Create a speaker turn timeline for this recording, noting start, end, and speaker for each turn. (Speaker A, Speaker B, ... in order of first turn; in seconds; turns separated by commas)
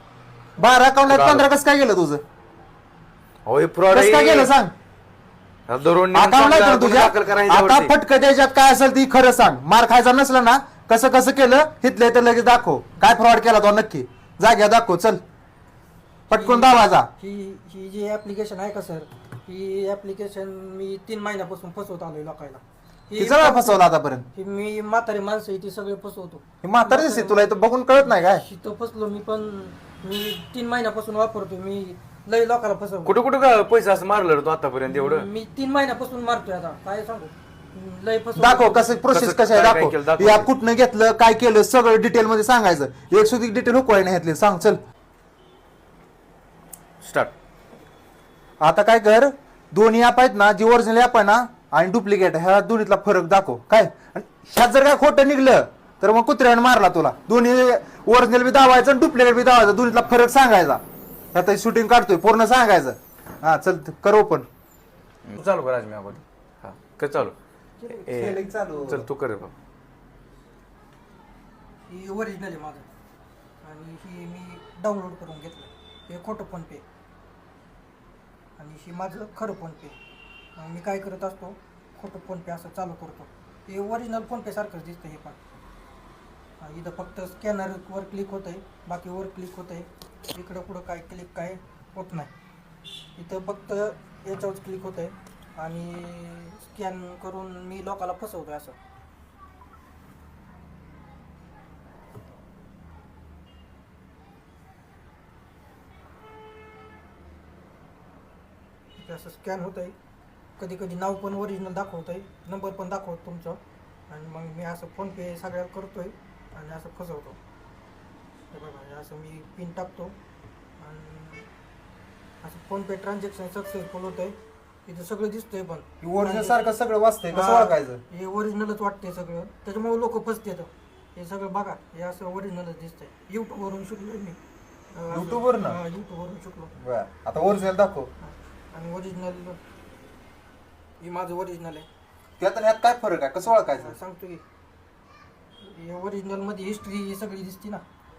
Speaker A: 0.6-2.2, Speaker B: 1.1-1.5, Speaker B: 3.5-4.5, Speaker A: 3.9-4.7, Speaker B: 5.7-7.9, Speaker A: 6.1-15.2, Speaker A: 16.3-17.1, Speaker C: 16.3-33.2, Speaker A: 23.2-24.3, Speaker A: 26.6-28.4, Speaker B: 33.1-35.3, Speaker C: 34.9-39.0, Speaker A: 38.4-44.8, Speaker B: 39.1-40.5, Speaker B: 47.0-47.3, Speaker A: 48.6-60.8, Speaker A: 61.3-64.5, Speaker B: 65.3-67.3, Speaker B: 67.9-69.5, Speaker A: 68.1-69.1, Speaker C: 71.9-72.9, Speaker C: 73.6-76.8, Speaker C: 78.6-80.0, Speaker C: 80.6-85.4, Speaker C: 86.6-92.3, Speaker C: 93.2-98.8, Speaker C: 109.0-110.0, Speaker C: 110.6-117.4, Speaker C: 118.5-120.2, Speaker C: 120.8-121.5, Speaker C: 122.4-126.6, Speaker A: 126.0-128.0, Speaker C: 127.3-134.4, Speaker C: 134.9-136.7, Speaker A: 135.1-135.8, Speaker A: 136.8-138.1, Speaker C: 138.2-139.6, Speaker C: 141.0-141.9, Speaker A: 142.4-143.9, Speaker C: 143.4-144.4, Speaker C: 145.6-147.8